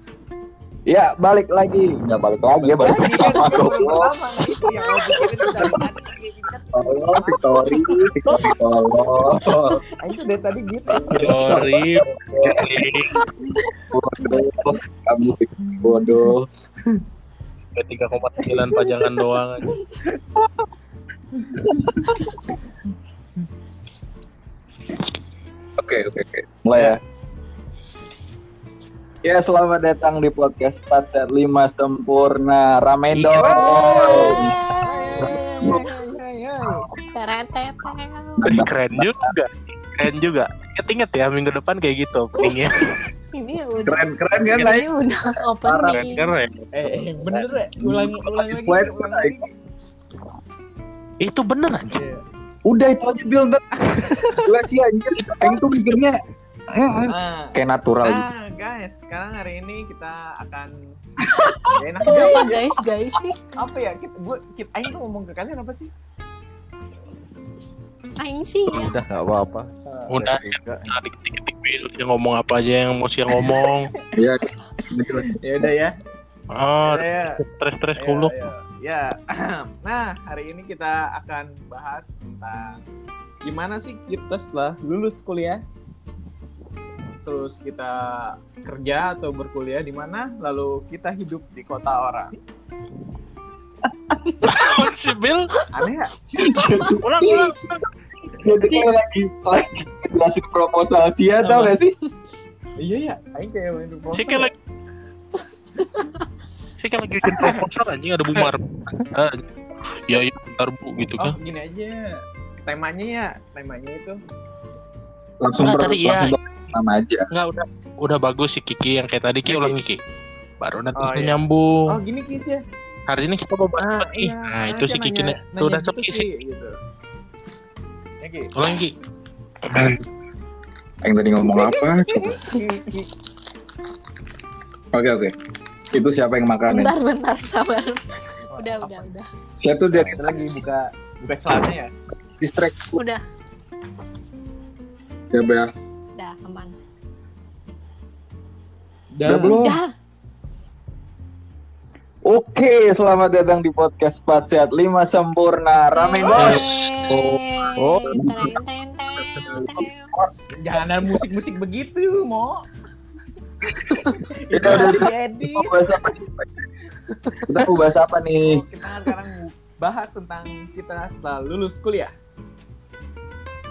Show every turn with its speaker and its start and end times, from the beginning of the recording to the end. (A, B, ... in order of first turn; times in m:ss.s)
0:00.9-0:04.1 A
0:02.6-0:08.5 B
0:06.7-0:09.8 A
0:10.0-0:11.6 B
0:10.9-0:12.7 A
0:11.2-0:13.2 C
0:13.9-0:16.5 A
0:17.8-0:19.7 C
0:18.7-0:19.0 B
0:19.7-0:20.2 B
0:21.4-0:21.6 B
0:21.7-0:22.2 A
0:25.8-0:27.0 A
0:29.2-0:34.5 A
0:33.1-0:34.2 C
0:33.4-0:36.8 B
0:33.5-0:35.8 D
0:35.6-0:35.9 A
0:37.1-0:38.5 D
0:38.4-0:39.3 A
0:38.4-0:42.9 C
0:43.3-0:46.3 D
0:43.8-0:44.9 A
0:45.6-0:46.1 A
0:45.8-0:46.6 C
0:46.7-0:49.5 B
0:47.8-0:49.4 A
0:51.2-0:52.0 C
0:51.9-0:52.2 B
0:52.6-0:53.6 A
0:53.8-0:54.3 B
0:54.4-0:56.2 A
0:56.7-0:58.3 A
0:57.1-1:00.7 B
1:01.8-1:02.8 B
1:02.0-1:03.4 D
1:03.5-1:05.9 B
1:08.2-1:09.0 D
1:08.7-1:11.0 E
1:09.9-1:10.3 B
1:10.1-1:13.9 C
1:13.3-1:14.0 B
1:14.2-1:15.3 A
1:15.2-1:15.9 B
1:16.5-1:18.4 C
1:16.8-1:17.4 B
1:18.0-1:22.8 B
1:23.4-1:25.6 B
1:27.2-1:32.3 B
1:34.4-1:35.5 C
1:35.7-1:36.1 B
1:36.4-1:37.5 A
1:36.5-1:36.9 D
1:37.0-1:37.8 C
1:38.4-1:41.9 A
1:41.4-1:41.8 B
1:42.8-1:44.5 B
1:44.1-1:44.5 C
1:46.8-1:49.4 C
1:50.1-1:51.4 C
1:51.2-1:52.1 B
1:52.6-1:54.2 B
1:55.4-1:57.2 A
1:55.6-1:56.3 C
1:57.3-2:00.0 C
1:59.4-1:59.8 B
2:00.6-2:01.6 C
2:00.9-2:02.6 B
2:03.1-2:06.2 C
2:03.7-2:06.7 B
2:08.2-2:08.7 B
2:08.5-2:08.9 C
2:09.7-2:10.0 C
2:11.0-2:12.4 A
2:11.4-2:13.1 B
2:14.9-2:15.3 A
2:15.9-2:17.0 A
2:16.7-2:18.0 D
2:18.5-2:19.1 B
2:18.6-2:19.2 D
2:19.6-2:20.4 A
2:19.9-2:21.9 B
2:22.4-2:23.0 A
2:23.0-2:23.2 D
2:25.3-2:25.7 A
2:26.2-2:26.8 D
2:29.1-2:29.8 B
2:29.2-2:29.8 A
2:29.5-2:29.9 D
2:32.2-2:36.8 A
2:35.9-2:40.1 D
2:36.3-2:37.4 C
2:38.0-2:38.6 A
2:39.2-2:40.3 A
2:40.6-2:42.6 B
2:43.9-2:44.2 D
2:44.3-2:45.7 B
2:44.5-2:46.5 A
2:47.4-2:48.6 A
2:48.4-2:52.1 B